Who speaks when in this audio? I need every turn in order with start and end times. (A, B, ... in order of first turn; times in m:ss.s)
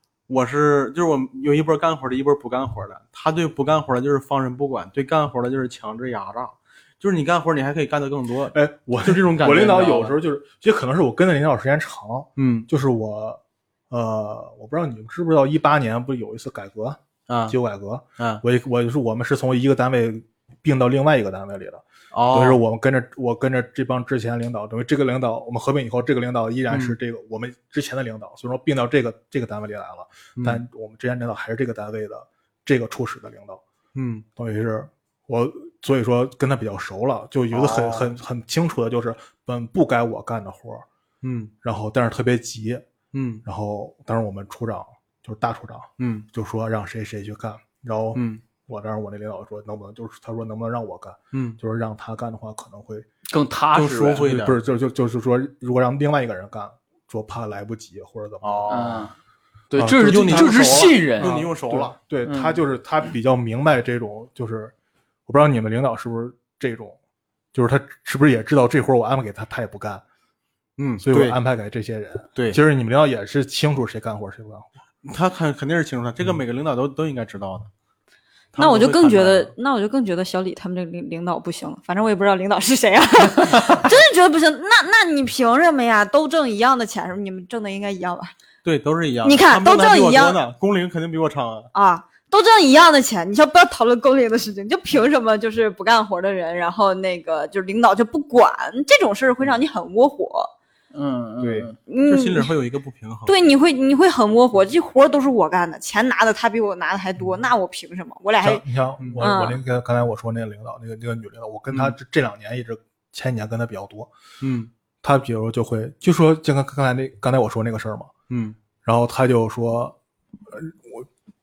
0:00.3-0:10.2 A
0:08.5-0:33.6 B
0:12.4-0:12.7 A
0:17.3-0:17.6 A
0:22.1-0:22.6 A
0:26.7-0:27.0 A
0:30.4-0:30.6 A
0:33.9-0:34.2 A
0:34.4-0:40.8 B
0:37.5-0:38.2 A
0:41.2-0:41.5 A
0:41.6-0:42.8 B
0:43.1-0:43.4 A
0:43.4-0:53.1 B
0:46.0-0:46.2 A
0:48.1-0:48.4 A
0:51.3-0:51.6 A
0:53.2-0:54.3 C
0:53.7-0:54.6 A
0:54.2-0:58.8 B
0:58.4-0:59.1 A
0:58.7-0:59.1 C
0:59.7-1:01.4 C
0:59.8-1:04.7 B
1:00.0-1:01.9 A
1:02.2-1:02.6 C
1:05.3-1:07.0 B
1:07.5-1:10.0 B
1:10.8-1:11.4 A
1:11.0-1:14.7 B
1:15.0-1:17.7 A
1:18.5-1:19.5 A
1:18.6-1:28.3 D
1:28.6-1:31.7 A
1:29.2-1:30.4 D
1:31.7-1:40.5 D
1:40.9-1:41.8 C
1:41.4-1:43.3 A
1:41.9-1:42.5 D
1:43.2-1:48.6 D
1:48.4-1:54.1 B
1:49.0-1:49.3 A
1:49.2-1:49.6 D
1:54.4-1:54.7 A
1:55.0-1:58.1 B
1:58.3-1:58.6 A
1:58.8-1:59.9 B
2:00.5-2:01.1 B